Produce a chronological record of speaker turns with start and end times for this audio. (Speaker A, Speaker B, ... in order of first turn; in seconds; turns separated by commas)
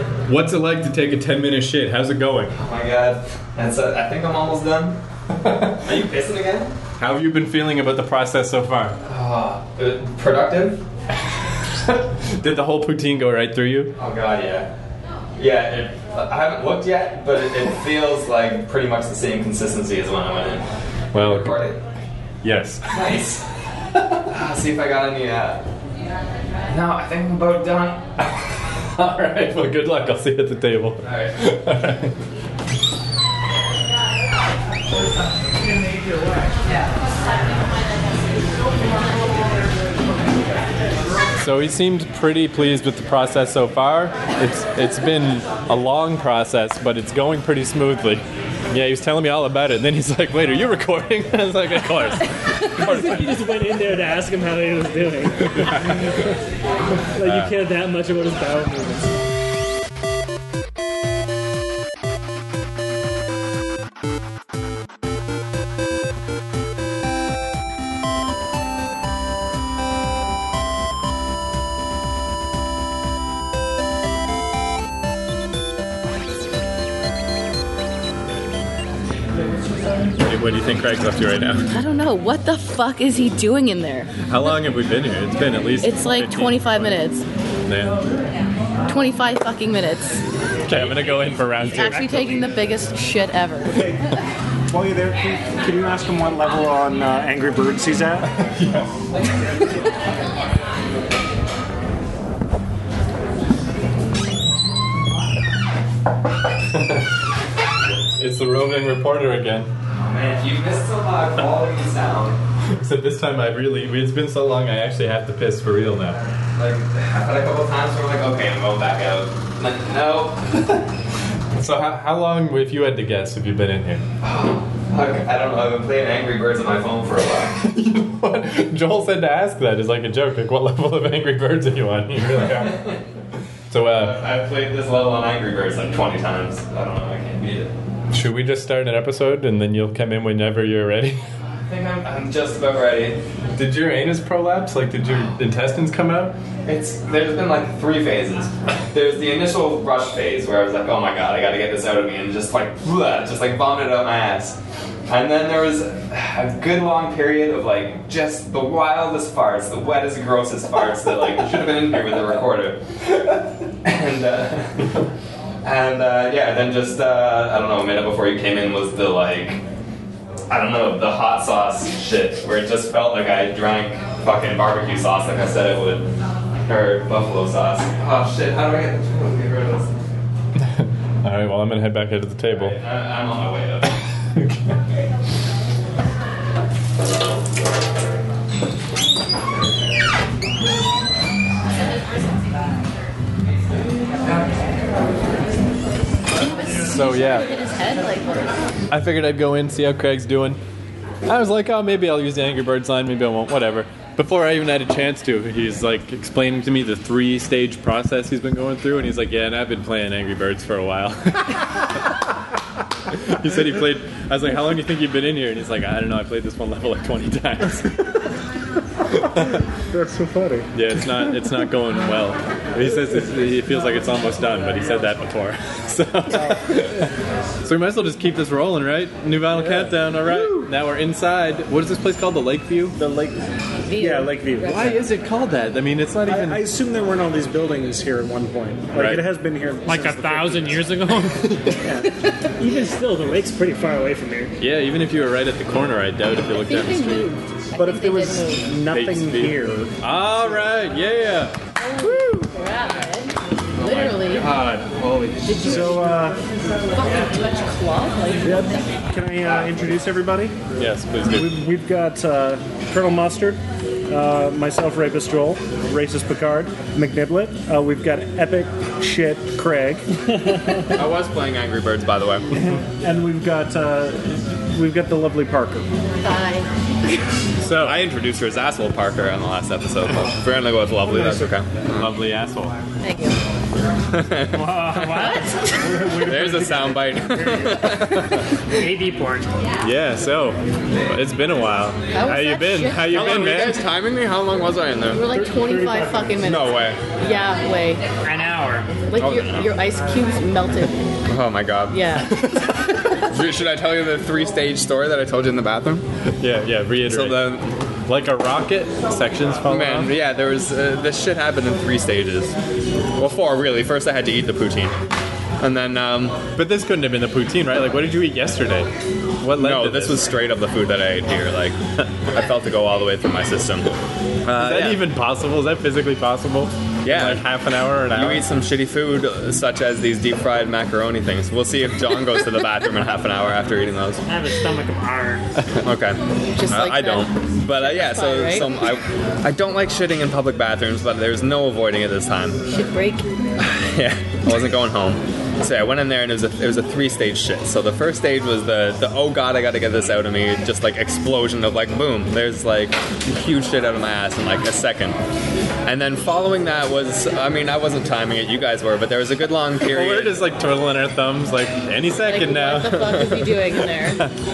Speaker A: 0.2-2.6, Speaker B: 2.5-5.0, Speaker A: 5.5-5.7, Speaker B: 5.7-6.8, Speaker A: 7.0-9.0, Speaker B: 9.0-10.8, Speaker A: 12.2-13.9, Speaker B: 13.9-14.7, Speaker B: 15.4-21.8, Speaker A: 21.1-21.6, Speaker A: 22.4-23.0, Speaker B: 22.9-23.4, Speaker B: 24.3-25.6, Speaker B: 26.7-28.1, Speaker A: 28.9-32.1, Speaker B: 31.0-31.4, Speaker A: 41.4-53.7, Speaker C: 52.7-56.1, Speaker A: 55.5-56.0, Speaker C: 57.2-59.1, Speaker A: 57.2-57.5, Speaker A: 80.2-81.7, Speaker D: 81.7-84.3, Speaker A: 84.3-86.9, Speaker D: 85.8-87.3, Speaker A: 87.7-88.0, Speaker D: 88.9-90.2, Speaker A: 90.7-92.4, Speaker D: 91.6-93.9, Speaker E: 93.7-94.1, Speaker E: 94.7-98.4, Speaker A: 106.7-107.0, Speaker A: 108.2-109.7, Speaker B: 109.9-112.4, Speaker A: 112.7-116.2, Speaker B: 116.5-120.8, Speaker A: 121.5-124.0, Speaker B: 124.2-127.6, Speaker A: 127.6-133.0, Speaker B: 132.6-133.0, Speaker A: 133.7-134.2, Speaker B: 133.8-137.7, Speaker A: 138.1-141.2, Speaker B: 141.7-143.2, Speaker A: 143.6-146.3, Speaker B: 146.7-165.0, Speaker B: 165.6-169.6, Speaker B: 170.5-176.1, Speaker B: 176.7-180.1, Speaker A: 180.6-182.8, Speaker B: 182.5-184.0, Speaker A: 184.3-184.8, Speaker D: 196.4-198.6, Speaker A: 196.9-197.5, Speaker A: 198.9-200.6, Speaker A: 201.3-212.0, Speaker A: 213.1-218.2, Speaker E: 219.4-220.7, Speaker A: 220.7-227.1, Speaker E: 226.4-226.6, Speaker A: 227.6-233.0, Speaker E: 229.5-230.7, Speaker E: 233.0-233.4, Speaker D: 233.9-235.0, Speaker E: 233.9-235.0, Speaker A: 234.6-236.7, Speaker E: 236.3-240.9, Speaker A: 238.9-239.3, Speaker F: 239.9-241.6, Speaker E: 241.8-242.2, Speaker C: 242.6-244.6, Speaker A: 244.6-247.3, Speaker D: 246.6-248.7, Speaker E: 247.8-249.9, Speaker A: 248.9-251.6, Speaker D: 251.8-254.5, Speaker B: 253.8-256.0, Speaker D: 255.4-256.3, Speaker E: 255.6-256.4, Speaker D: 256.9-258.9, Speaker E: 258.4-260.6, Speaker A: 260.8-261.6, Speaker E: 261.3-270.9, Speaker B: 270.9-272.5, Speaker E: 272.5-275.9, Speaker D: 276.2-277.2, Speaker A: 277.6-278.0, Speaker B: 277.8-282.1, Speaker E: 281.0-281.5, Speaker A: 282.0-282.8, Speaker D: 283.0-283.4, Speaker B: 284.1-285.4, Speaker F: 284.5-285.8, Speaker E: 285.7-287.3, Speaker B: 286.1-288.4, Speaker F: 288.7-289.5, Speaker A: 289.8-293.8, Speaker D: 292.1-293.7, Speaker B: 293.1-295.3, Speaker D: 295.1-298.0, Speaker E: 295.2-296.5, Speaker B: 296.4-297.0, Speaker F: 298.2-298.9, Speaker D: 299.1-301.0, Speaker B: 299.2-299.7, Speaker B: 301.3-302.2, Speaker D: 301.9-302.6, Speaker B: 303.2-306.1, Speaker A: 306.4-310.1, Speaker B: 307.1-307.8, Speaker B: 309.7-312.6, Speaker B: 313.2-315.0, Speaker B: 315.6-316.4, Speaker A: 316.6-318.9, Speaker A: 319.4-320.3, Speaker B: 319.6-325.1, Speaker A: 324.5-328.5, Speaker B: 327.0-327.4, Speaker B: 328.1-334.2, Speaker F: 334.3-335.4, Speaker B: 335.8-336.2, Speaker D: 336.5-338.7, Speaker B: 336.7-342.6, Speaker D: 342.7-343.3, Speaker B: 343.6-355.2, Speaker B: 355.9-360.5, Speaker A: 359.8-363.5, Speaker D: 362.2-364.2, Speaker B: 363.0-363.5, Speaker A: 364.1-364.3